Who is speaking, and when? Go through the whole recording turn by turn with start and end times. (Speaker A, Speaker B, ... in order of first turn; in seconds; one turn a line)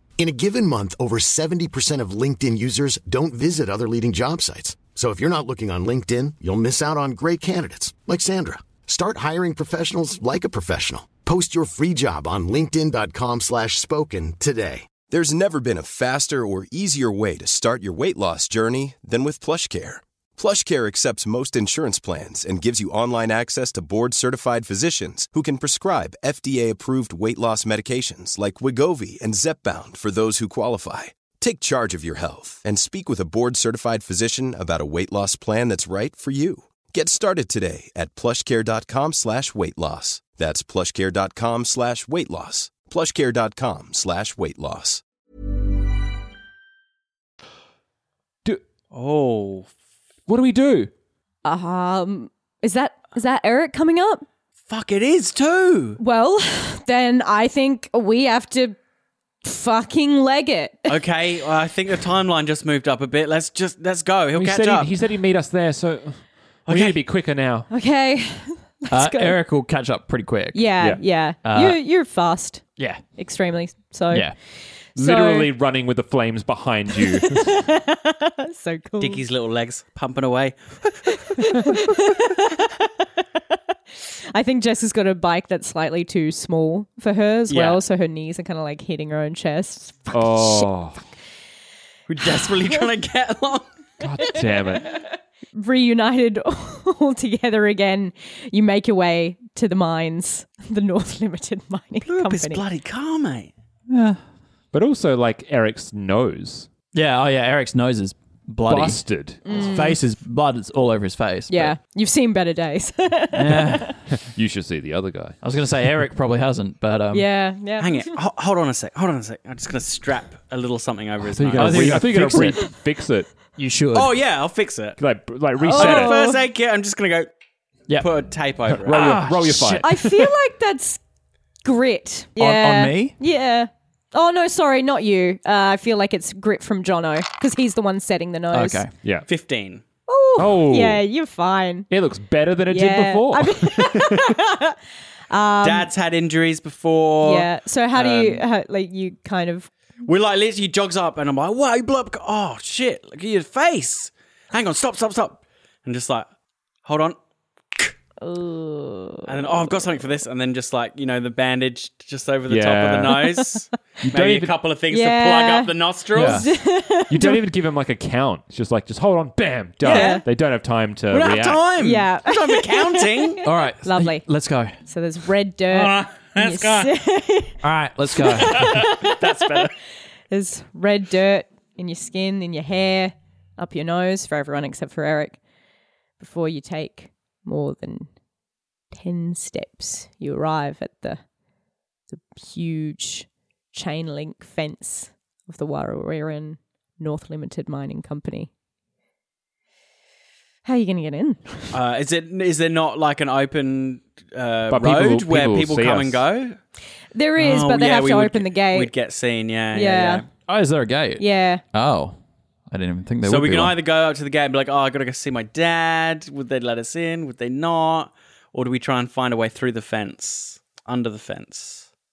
Speaker A: 0.2-14.9
Speaker B: 15.1-45.0
Speaker C: 48.9-49.7
Speaker D: 50.3-50.9
Speaker E: 51.5-54.3
Speaker C: 54.7-56.0
Speaker E: 56.0-58.8
Speaker E: 59.4-61.0
Speaker C: 60.9-64.9
Speaker D: 64.3-67.7
Speaker C: 66.7-67.0
Speaker E: 67.7-69.4
Speaker F: 68.9-70.7
Speaker E: 70.5-72.6
Speaker F: 71.4-71.8
Speaker F: 72.8-73.0
Speaker E: 73.1-74.3
Speaker F: 74.1-74.4
Speaker E: 74.9-75.5
Speaker D: 75.0-77.6
Speaker E: 77.0-79.2
Speaker C: 79.0-80.6
Speaker E: 81.1-83.1
Speaker E: 83.9-90.7
Speaker C: 87.5-87.8
Speaker D: 90.1-91.0
Speaker C: 92.1-93.7
Speaker D: 94.0-94.9
Speaker E: 94.2-95.0
Speaker E: 95.5-102.6
Speaker C: 102.0-103.5
Speaker F: 103.9-104.2
Speaker D: 104.7-106.7
Speaker F: 106.9-111.8
Speaker D: 108.7-109.4
Speaker E: 109.5-110.0
Speaker E: 111.5-114.0
Speaker F: 113.3-114.0
Speaker D: 114.1-115.4
Speaker F: 115.4-117.3
Speaker E: 117.1-118.1
Speaker C: 117.8-122.2
Speaker D: 121.2-123.3
Speaker F: 121.5-122.6
Speaker F: 123.6-124.1
Speaker C: 123.9-125.0
Speaker D: 125.0-126.2
Speaker E: 125.6-126.4
Speaker C: 125.8-127.3
Speaker C: 128.0-129.3
Speaker D: 128.7-130.1
Speaker F: 128.9-130.1
Speaker E: 129.8-131.0
Speaker E: 131.6-138.8
Speaker F: 132.4-133.1
Speaker F: 138.5-138.9
Speaker C: 139.3-139.8
Speaker E: 140.1-141.9
Speaker D: 140.4-141.0
Speaker D: 141.9-144.3
Speaker E: 142.7-144.8
Speaker E: 145.3-145.9
Speaker C: 145.6-148.4
Speaker E: 147.2-149.7
Speaker C: 150.1-156.3
Speaker C: 156.8-157.2
Speaker E: 158.2-159.9
Speaker C: 159.3-166.5
Speaker D: 162.5-163.2
Speaker D: 164.1-164.6
Speaker E: 164.9-167.4
Speaker F: 166.1-166.5
Speaker D: 167.1-171.8
Speaker C: 169.8-170.2
Speaker E: 169.9-170.2
Speaker C: 171.1-173.4
Speaker E: 171.8-174.3
Speaker F: 173.4-174.8
Speaker E: 174.8-177.6
Speaker C: 175.7-176.9
Speaker F: 177.6-178.7
Speaker E: 178.1-179.2
Speaker C: 178.3-179.7
Speaker E: 180.3-185.4
Speaker E: 186.2-188.1
Speaker E: 188.9-191.2
Speaker E: 192.1-198.5
Speaker E: 200.6-201.8
Speaker C: 201.7-206.6
Speaker D: 204.7-206.2
Speaker E: 207.1-208.9
Speaker C: 207.4-210.3
Speaker E: 209.7-210.2
Speaker F: 210.5-212.2
Speaker E: 211.2-211.6
Speaker F: 212.7-213.8
Speaker C: 213.2-221.9